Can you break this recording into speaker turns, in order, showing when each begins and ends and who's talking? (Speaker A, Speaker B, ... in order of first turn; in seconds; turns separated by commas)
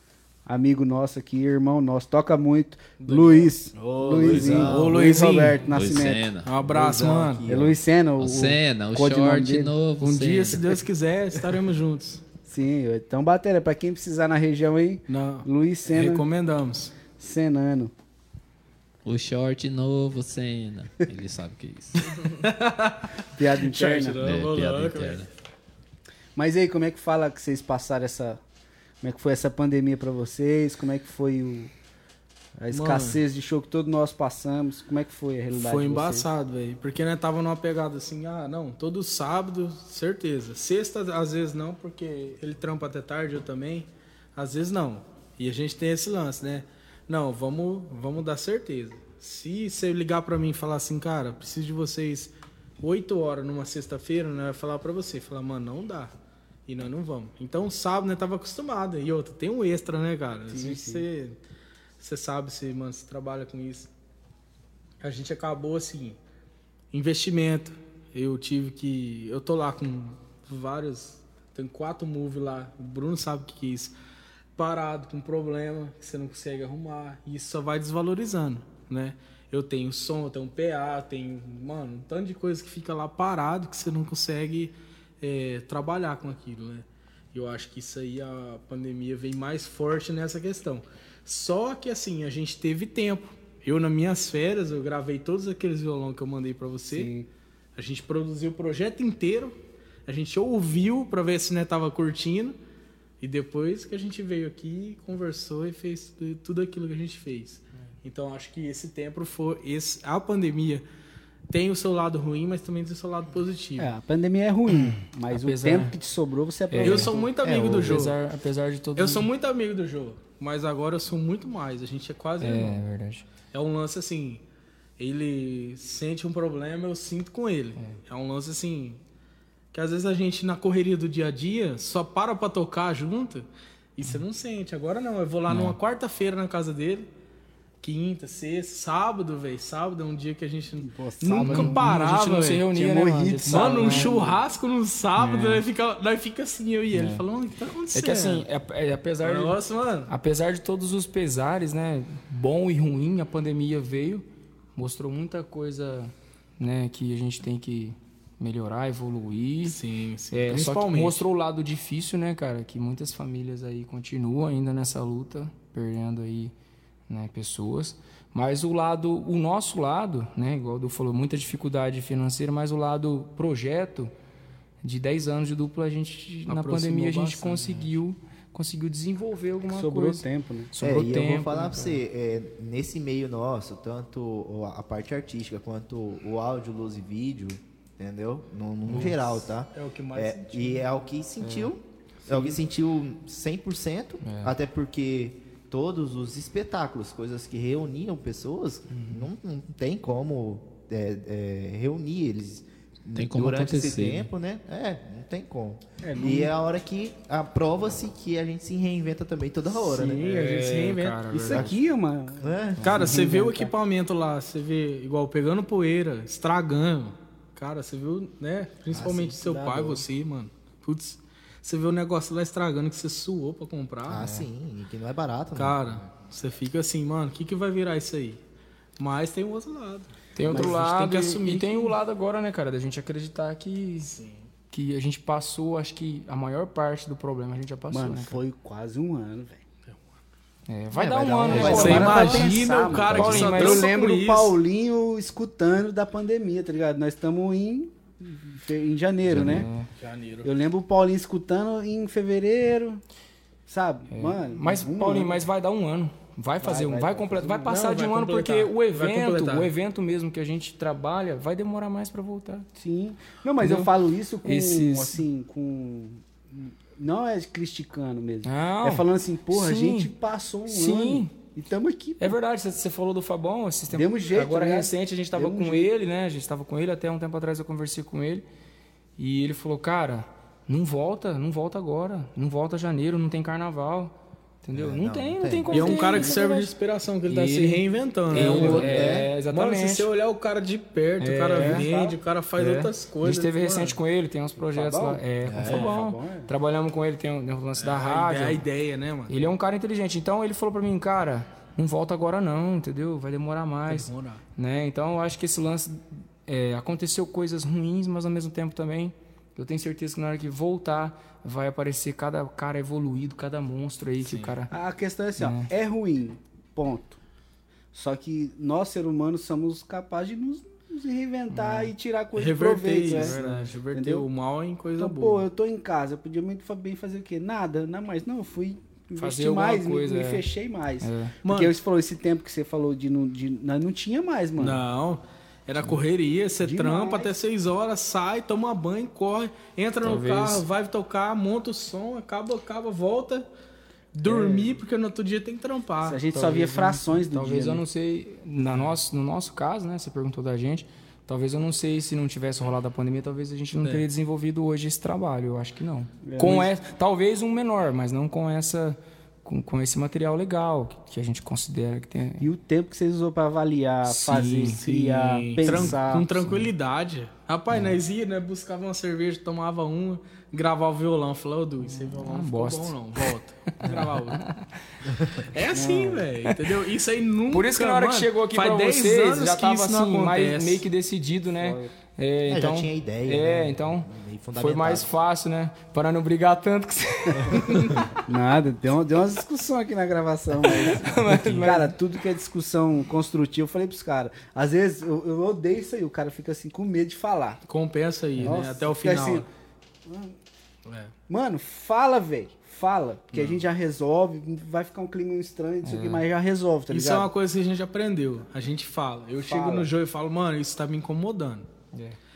Speaker A: 0.5-6.3, Speaker B: 3.0-3.5, Speaker C: 3.8-5.0, Speaker D: 4.2-4.7, Speaker B: 4.4-5.6, Speaker D: 5.7-6.5, Speaker B: 6.5-7.5, Speaker C: 6.7-7.8, Speaker A: 7.5-9.7, Speaker D: 8.2-10.7, Speaker B: 10.0-12.2, Speaker A: 12.5-16.2, Speaker B: 15.1-16.9, Speaker A: 17.2-17.9, Speaker D: 19.1-22.2, Speaker B: 22.2-25.2, Speaker A: 23.4-24.2, Speaker D: 24.2-25.3, Speaker A: 26.4-28.4, Speaker A: 29.0-31.7, Speaker A: 32.6-36.3, Speaker B: 32.7-33.2, Speaker B: 35.5-56.1, Speaker B: 56.7-61.4, Speaker A: 60.5-61.0, Speaker B: 62.0-63.9, Speaker B: 65.0-66.2, Speaker B: 66.9-73.9, Speaker B: 74.6-97.1, Speaker A: 96.9-97.3, Speaker B: 97.8-99.5, Speaker B: 100.1-102.6, Speaker B: 103.2-110.8, Speaker B: 111.5-113.9, Speaker A: 113.8-118.0, Speaker E: 115.3-115.9, Speaker E: 116.7-117.1, Speaker B: 116.8-118.2, Speaker E: 117.8-119.3, Speaker B: 119.0-122.8, Speaker E: 122.4-123.2, Speaker B: 123.5-124.4, Speaker B: 125.0-129.0, Speaker B: 129.7-133.4, Speaker B: 134.0-137.1, Speaker E: 135.5-135.8, Speaker B: 137.8-142.7, Speaker A: 140.8-141.9, Speaker E: 141.3-144.2, Speaker A: 142.7-144.4, Speaker B: 143.4-148.5, Speaker E: 145.2-145.6, Speaker E: 146.9-147.2, Speaker E: 147.9-149.6, Speaker B: 149.2-150.1, Speaker E: 150.1-154.2, Speaker E: 154.8-159.8, Speaker B: 159.6-161.2, Speaker E: 160.3-166.5, Speaker E: 167.1-174.1, Speaker E: 174.8-182.0, Speaker B: 176.5-177.9, Speaker A: 179.7-180.7, Speaker C: 180.8-210.2, Speaker E: 188.9-189.3, Speaker B: 189.7-190.9, Speaker E: 191.4-191.7, Speaker E: 194.2-194.6, Speaker E: 198.9-199.3, Speaker D: 203.2-204.3, Speaker A: 206.1-206.5, Speaker B: 209.8-211.7, Speaker E: 210.2-211.7, Speaker A: 211.5-213.7, Speaker C: 211.5-211.8, Speaker C: 212.4-213.2, Speaker B: 212.8-224.4, Speaker A: 218.9-220.0, Speaker C: 224.1-226.0, Speaker B: 225.6-228.4, Speaker B: 229.0-231.9, Speaker E: 230.3-234.1, Speaker A: 230.5-230.8, Speaker B: 234.0-234.4, Speaker E: 234.7-238.4, Speaker A: 237.9-239.6, Speaker E: 240.7-242.5, Speaker A: 241.0-249.7, Speaker C: 241.1-242.5, Speaker B: 241.6-244.6, Speaker E: 243.1-243.9, Speaker E: 249.3-249.9, Speaker D: 249.4-249.6, Speaker B: 250.0-250.5, Speaker A: 250.4-253.0, Speaker A: 253.7-255.3, Speaker E: 254.1-262.7, Speaker A: 256.6-257.7, Speaker B: 257.7-259.7, Speaker A: 262.8-272.4, Speaker E: 263.6-263.9, Speaker E: 264.4-265.2, Speaker E: 268.4-270.1, Speaker E: 270.7-271.3, Speaker E: 272.2-278.4, Speaker A: 273.9-275.9, Speaker E: 279.2-286.7, Speaker C: 284.7-286.0, Speaker B: 285.7-294.0, Speaker A: 286.1-286.5, Speaker E: 287.3-290.1, Speaker C: 288.3-289.3, Speaker E: 291.2-291.9, Speaker A: 291.5-292.2, Speaker E: 292.6-298.6, Speaker A: 294.6-296.5, Speaker C: 295.4-296.0, Speaker B: 297.8-299.5, Speaker E: 299.3-314.7, Speaker B: 303.9-304.4, Speaker B: 314.2-314.5, Speaker A: 314.7-317.2, Speaker E: 315.4-315.7, Speaker A: 317.9-323.4, Speaker E: 321.5-321.9, Speaker B: 322.4-325.5, Speaker E: 323.1-323.8, Speaker A: 323.9-324.3, Speaker A: 325.0-334.8, Speaker E: 329.2-330.4, Speaker E: 331.0-331.3, Speaker B: 331.4-331.8, Speaker B: 334.6-343.5, Speaker A: 336.6-337.3, Speaker E: 340.0-340.6, Speaker B: 344.1-346.2, Speaker A: 344.3-344.8, Speaker A: 346.0-347.8, Speaker E: 346.3-362.5, Speaker A: 356.2-356.7, Speaker A: 362.4-366.3, Speaker E: 364.1-364.8, Speaker B: 364.7-374.4, Speaker E: 365.7-366.7, Speaker E: 367.7-368.0, Speaker E: 371.8-372.9, Speaker E: 373.8-374.7, Speaker B: 375.4-380.8, Speaker A: 375.7-376.2, Speaker E: 377.5-388.1, Speaker A: 381.6-381.9, Speaker C: 382.5-385.1, Speaker A: 388.3-397.6, Speaker E: 390.7-392.0, Speaker B: 397.7-399.5, Speaker A: 398.4-399.4, Speaker A: 400.1-400.3, Speaker B: 400.9-401.1, Speaker A: 401.3-407.3, Speaker B: 403.3-403.6, Speaker E: 405.8-406.2, Speaker B: 406.9-411.7, Speaker A: 409.4-409.9